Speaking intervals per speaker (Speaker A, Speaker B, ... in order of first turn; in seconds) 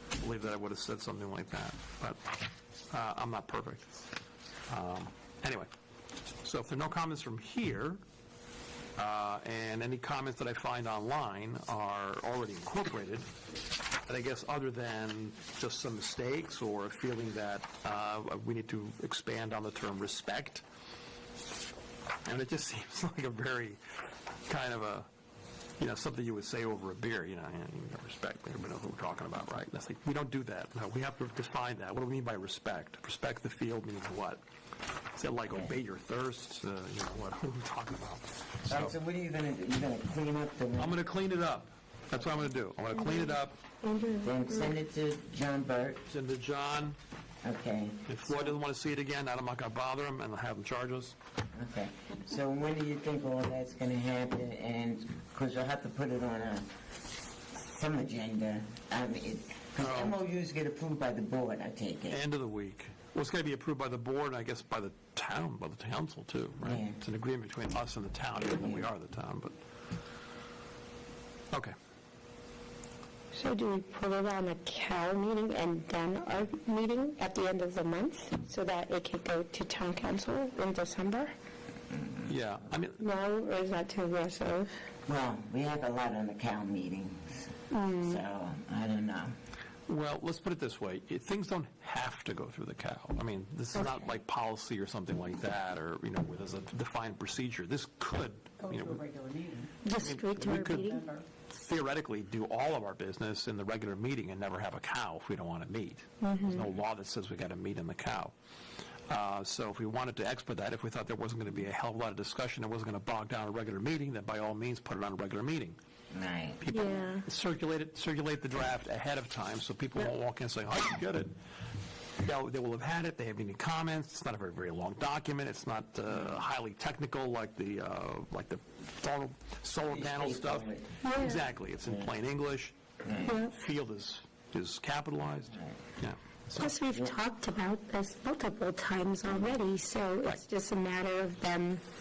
Speaker A: 0.2-2.2, 2.9-3.9, 4.7-5.7, 6.4-8.0, 8.9-13.3, 14.1-20.6, 22.2-23.8, 24.5-25.1, 25.8-34.4, 35.1-38.9, 40.8-43.6, 46.1-47.0, 48.1-51.1, 59.8-60.2, 62.1-69.5, 82.3-83.0, 89.9-99.0, 100.0-100.9, 101.5-108.3, 109.1-115.8, 116.6-121.3, 122.2-132.8, 133.3-136.8
Speaker B: 35.5-35.8, 38.7-41.0, 44.2-46.0, 47.4-48.5, 51.5-56.7, 57.6-62.2, 66.6-67.0, 68.5-68.9, 81.9-82.3, 85.0-89.3, 116.1-116.6, 129.9-130.9, 133.0-133.3, 135.5-135.8, 136.7-137.1
Speaker C: 42.9-44.7, 73.3-81.3, 83.0-84.7, 87.7-88.2, 99.8-101.0, 106.2-106.7, 116.7-117.2, 131.0-131.4, 133.2-133.5, 136.6-141.8
Speaker D: 98.6-99.8, 100.5-101.2